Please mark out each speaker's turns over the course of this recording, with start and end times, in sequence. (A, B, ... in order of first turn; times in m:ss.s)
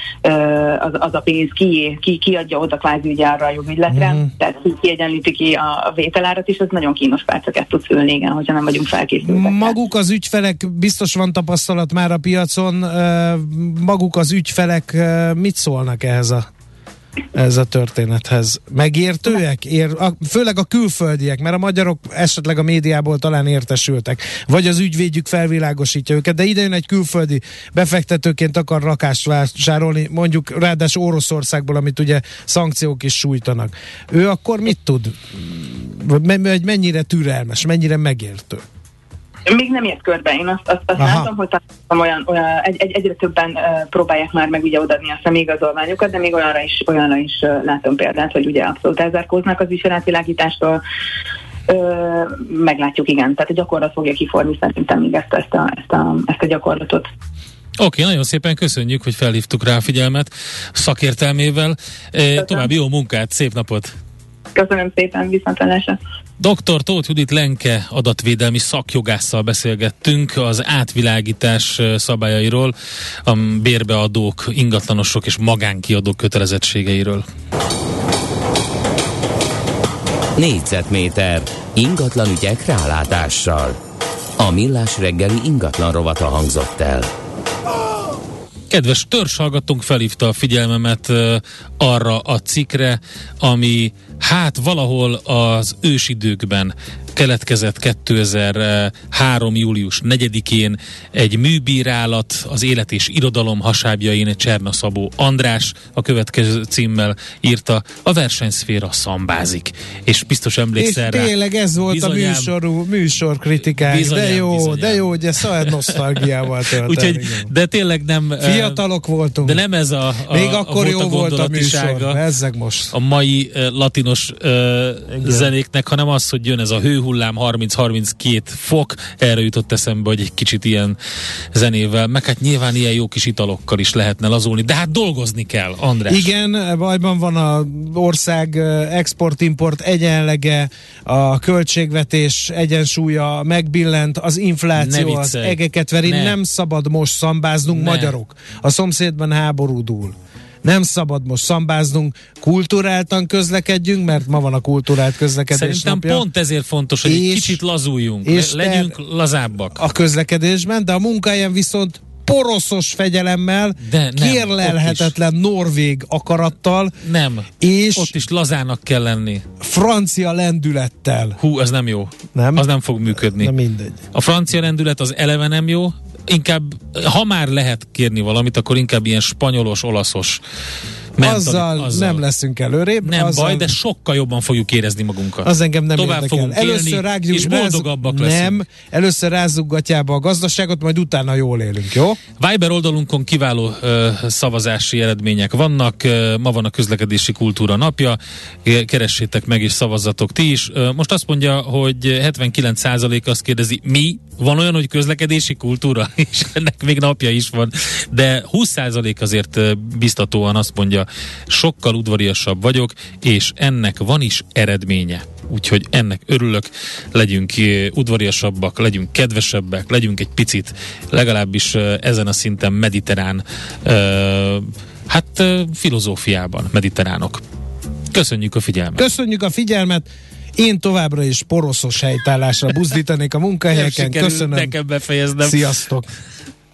0:00.2-0:09.8 A
0:03.9-0:04.2 B
0:09.2-0:16.5 B
0:17.3-0:38.6 B
0:39.5-0:50.8 A
0:41.0-0:41.3 B
0:51.7-0:57.1 A
0:57.8-1:03.9 C
1:02.4-1:02.7 A
1:04.5-1:06.0 A
1:06.4-1:12.7 C
1:13.2-1:17.2 C
1:20.4-1:23.8 D
1:24.4-1:27.1 D
1:28.7-1:51.3 C
1:50.8-1:57.5 B
1:51.9-1:52.5 C
1:53.8-1:56.0 C
1:56.8-1:58.8 C
1:58.4-1:59.6 B
1:59.4-2:02.2 C
2:00.3-2:02.9 B
2:02.9-2:11.0 C
2:05.2-2:05.5 B
2:11.5-2:16.3 C
2:16.0-2:36.2 B
2:24.8-2:26.4 C
2:27.7-2:28.1 C
2:35.5-2:39.8 C
2:37.0-2:37.6 B
2:38.2-2:38.9 B
2:39.7-2:46.9 B
2:43.8-2:45.1 C
2:47.0-2:49.4 C
2:47.6-2:48.1 B
2:49.6-2:51.4 B
2:51.4-2:53.5 C
2:52.3-2:52.6 B
2:53.3-2:54.0 B
2:54.1-3:00.4 C
3:01.2-3:02.2 C
3:01.2-3:03.7 B
3:03.0-3:08.6 C
3:05.4-3:12.2 B
3:12.4-3:47.4 C
3:48.1-3:49.0 C
3:49.0-3:54.7 B
3:53.7-3:55.6 C
3:55.4-3:56.1 B